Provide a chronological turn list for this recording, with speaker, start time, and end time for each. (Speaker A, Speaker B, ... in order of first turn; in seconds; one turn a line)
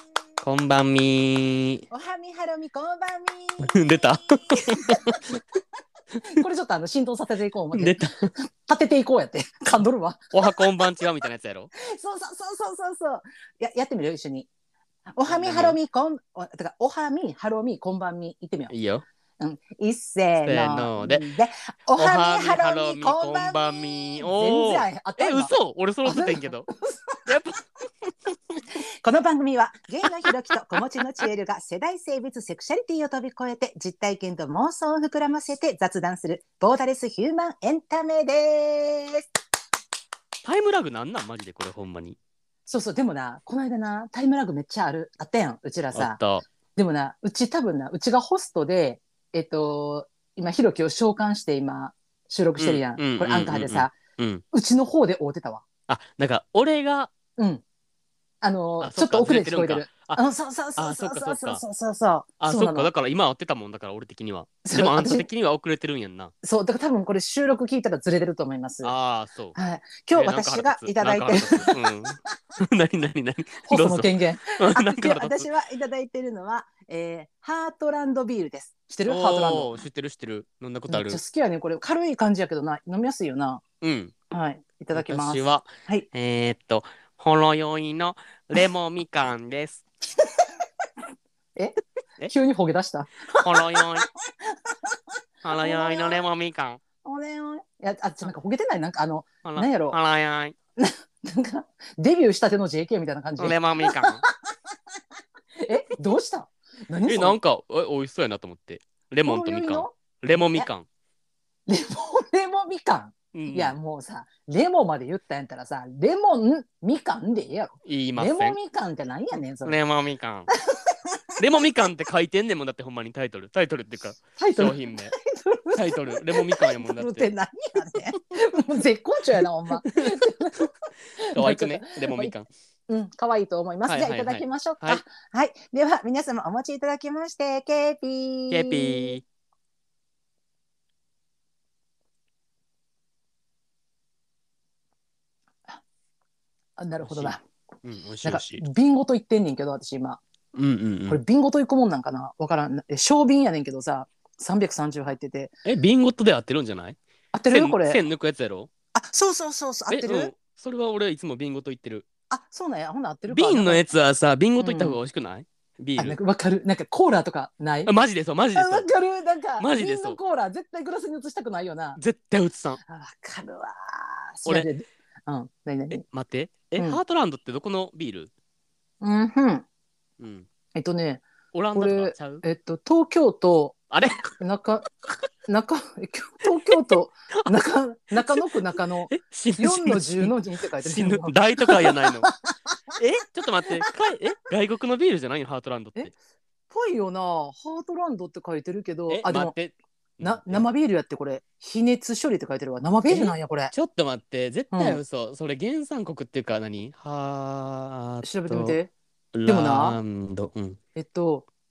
Speaker A: 0.4-1.9
Speaker B: 1.9-5.4
Speaker A: 3.6-5.2
Speaker B: 6.2-10.9
Speaker A: 7.7-8.1
Speaker A: 10.3-11.7
Speaker B: 11.8-14.5
Speaker B: 15.1-18.7
Speaker A: 15.3-15.8
Speaker A: 18.7-19.1
Speaker B: 19.4-25.5
Speaker A: 20.4-21.2
Speaker A: 22.0-26.7
Speaker B: 26.0-27.2
Speaker A: 27.3-28.6
Speaker B: 28.8-39.2
Speaker A: 40.4-42.2
Speaker B: 42.7-46.2
Speaker A: 45.9-46.5
Speaker B: 46.8-54.0
Speaker A: 52.6-54.4
Speaker B: 54.5-55.6
Speaker A: 55.9-57.1
Speaker B: 57.4-57.6
Speaker B: 58.4-62.9
Speaker A: 58.8-60.2
Speaker A: 60.8-61.6
Speaker A: 62.4-66.3
Speaker B: 64.7-65.3
Speaker B: 66.4-68.9
Speaker A: 68.8-69.6
Speaker B: 69.5-71.7
Speaker A: 70.1-75.5
Speaker B: 73.7-79.8
Speaker A: 79.1-81.2
Speaker B: 80.9-83.6
Speaker A: 83.8-84.1
Speaker B: 84.3-86.1
Speaker A: 84.9-89.8
Speaker B: 92.3-93.9
Speaker A: 93.3-94.1
Speaker B: 94.7-94.9
Speaker A: 95.4-96.8
Speaker B: 95.5-96.2
Speaker B: 97.0-100.0
Speaker A: 99.4-100.6
Speaker B: 100.8-104.5
Speaker A: 103.4-104.2
Speaker B: 105.6-107.4
Speaker A: 107.1-110.9
Speaker B: 109.2-110.0
Speaker B: 111.7-119.8
Speaker A: 113.3-113.8
Speaker A: 117.8-118.6
Speaker A: 119.6-120.5
Speaker A: 121.4-125.1
Speaker B: 124.4-132.3
Speaker A: 125.8-127.3
Speaker A: 131.3-132.5
Speaker B: 132.9-139.2
Speaker A: 133.9-135.0
Speaker A: 138.5-139.2
Speaker B: 146.8-147.4
Speaker A: 147.0-148.6
Speaker B: 148.2-150.2
Speaker A: 150.5-151.2
Speaker B: 151.1-155.6
Speaker A: 155.7-157.0
Speaker B: 157.3-158.0
Speaker A: 157.5-158.7
Speaker B: 158.9-160.3
Speaker A: 159.9-162.1
Speaker B: 162.3-163.9
Speaker A: 163.3-166.2
Speaker B: 164.6-165.0
Speaker B: 166.0-167.9
Speaker A: 167.9-168.9
Speaker B: 168.6-172.0
Speaker A: 169.6-170.2
Speaker A: 172.0-172.8
Speaker B: 172.9-176.0
Speaker A: 175.9-178.3
Speaker B: 176.8-177.0
Speaker B: 179.0-179.7
Speaker A: 180.2-180.5
Speaker B: 180.8-183.8
Speaker A: 181.5-182.4
Speaker A: 183.9-184.3
Speaker B: 184.4-184.9
Speaker B: 185.5-192.8
Speaker A: 188.2-188.5
Speaker A: 189.1-192.3
Speaker A: 193.0-196.1
Speaker B: 196.7-199.5
Speaker A: 199.1-200.7
Speaker B: 200.2-203.7
Speaker A: 203.1-208.8
Speaker B: 204.7-205.0
Speaker B: 208.2-208.9
Speaker A: 209.3-210.8
Speaker B: 209.5-210.0
Speaker B: 210.9-211.5